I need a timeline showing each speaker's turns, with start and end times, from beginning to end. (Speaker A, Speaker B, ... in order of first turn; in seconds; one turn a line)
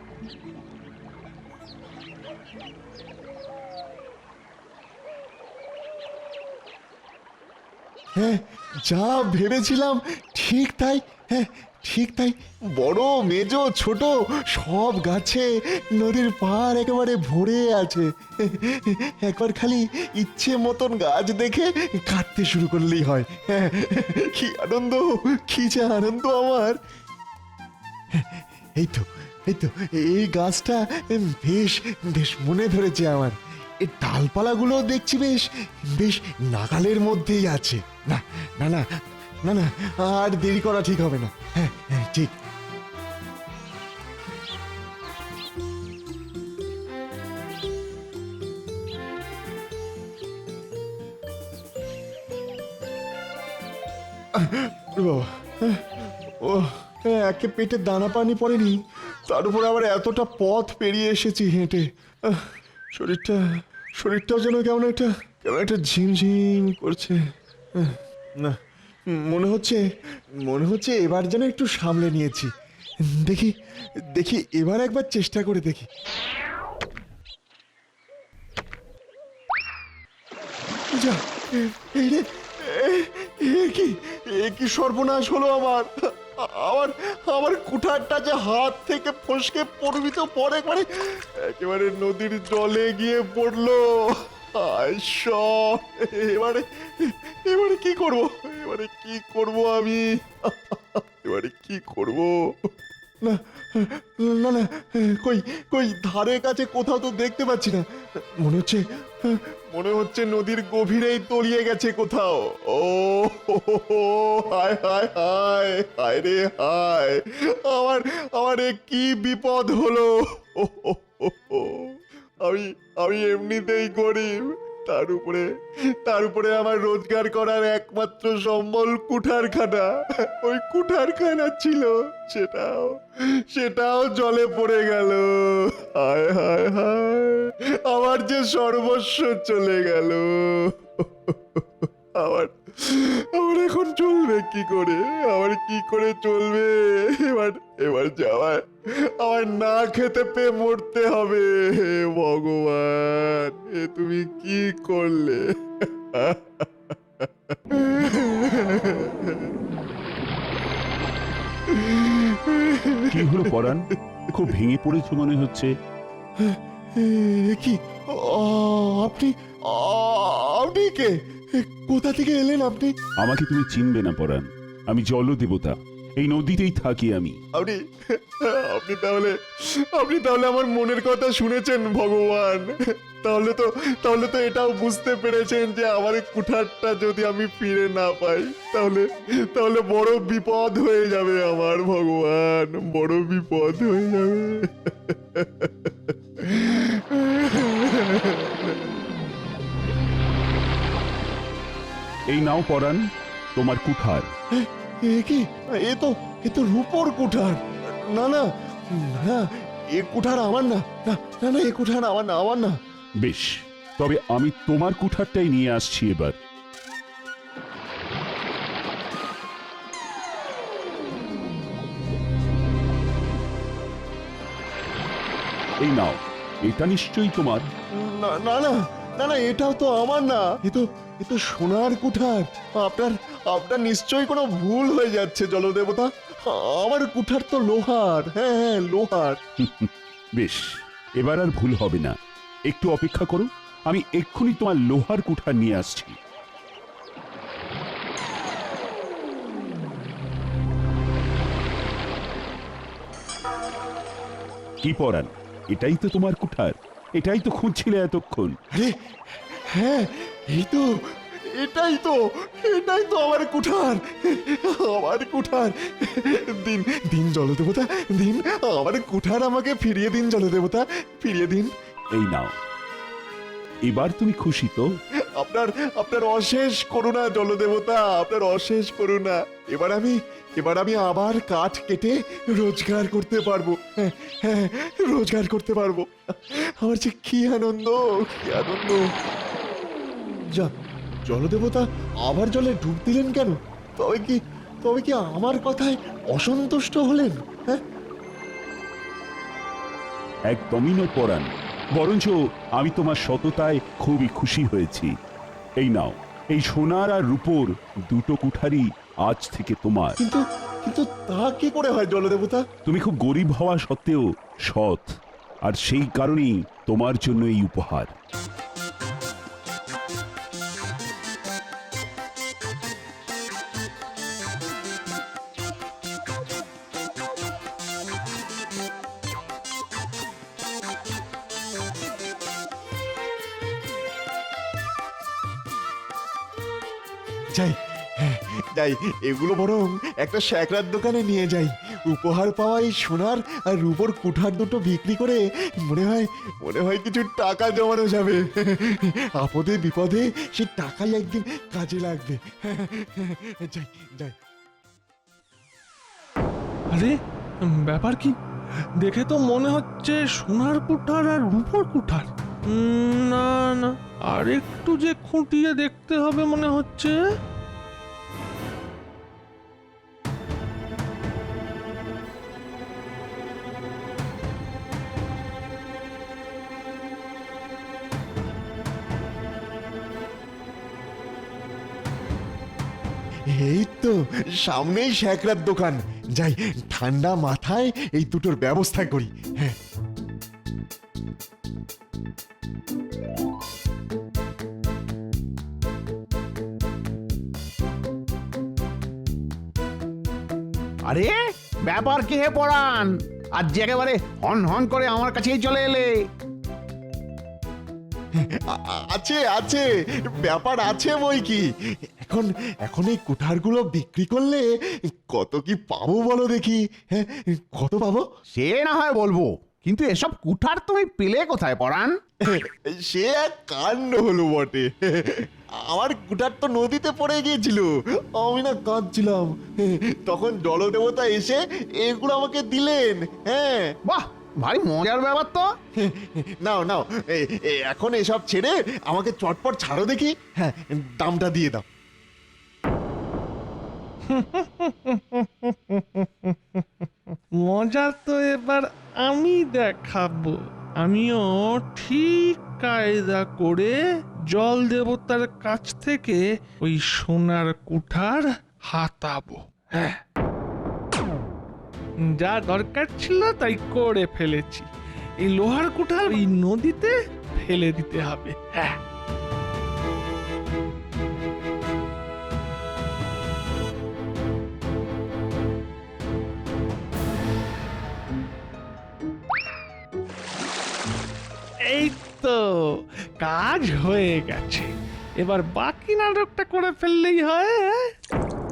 Speaker A: 8.2-26.8
Speaker A: 28.1-38.8
Speaker A: 39.4-42.3
Speaker A: 54.3-63.4
Speaker A: 64.0-67.2
Speaker A: 67.8-68.6
Speaker A: 69.1-69.8
Speaker A: 70.4-72.5
Speaker A: 73.0-73.5
Speaker A: 74.1-75.9
Speaker A: 80.9-102.3
Speaker A: 103.2-107.8
Speaker A: 108.4-121.9
Speaker A: 122.4-125.5
Speaker A: 126.0-148.7
Speaker A: 149.2-159.5
Speaker A: 161.7-163.5
Speaker B: 163.1-165.7
Speaker A: 166.4-172.9
Speaker B: 173.2-177.3
Speaker A: 177.5-177.8
Speaker A: 178.4-179.3
Speaker A: 179.9-198.8
Speaker B: 202.3-203.0
Speaker B: 203.5-204.3
Speaker A: 204.5-212.8
Speaker B: 213.2-216.3
Speaker B: 225.8-227.7
Speaker A: 227.9-239.4
Speaker B: 239.6-242.1
Speaker B: 242.7-246.2
Speaker B: 254.8-258.6
Speaker A: 259.7-260.9
Speaker A: 261.4-271.7
Speaker B: 272.1-272.5
Speaker B: 273.9-274.8
Speaker A: 275.4-289.0
Speaker A: 291.3-297.8
Speaker B: 300.5-305.1
Speaker B: 305.8-310.1
Speaker A: 310.2-312.6
Speaker B: 312.9-315.1
Speaker B: 315.6-318.1
Speaker A: 337.5-354.3
Speaker C: 356.9-358.4
Speaker C: 359.0-367.2
Speaker A: 383.5-389.8
Speaker D: 401.1-401.3
Speaker D: 401.9-406.1
Speaker A: 408.4-411.6
Speaker A: 412.2-418.2
Speaker D: 418.6-422.1
Speaker A: 422.4-433.9
Speaker D: 434.1-435.7
Speaker A: 436.0-441.9
Speaker C: 444.3-460.2
Speaker C: 462.2-469.0
Speaker C: 481.8-488.1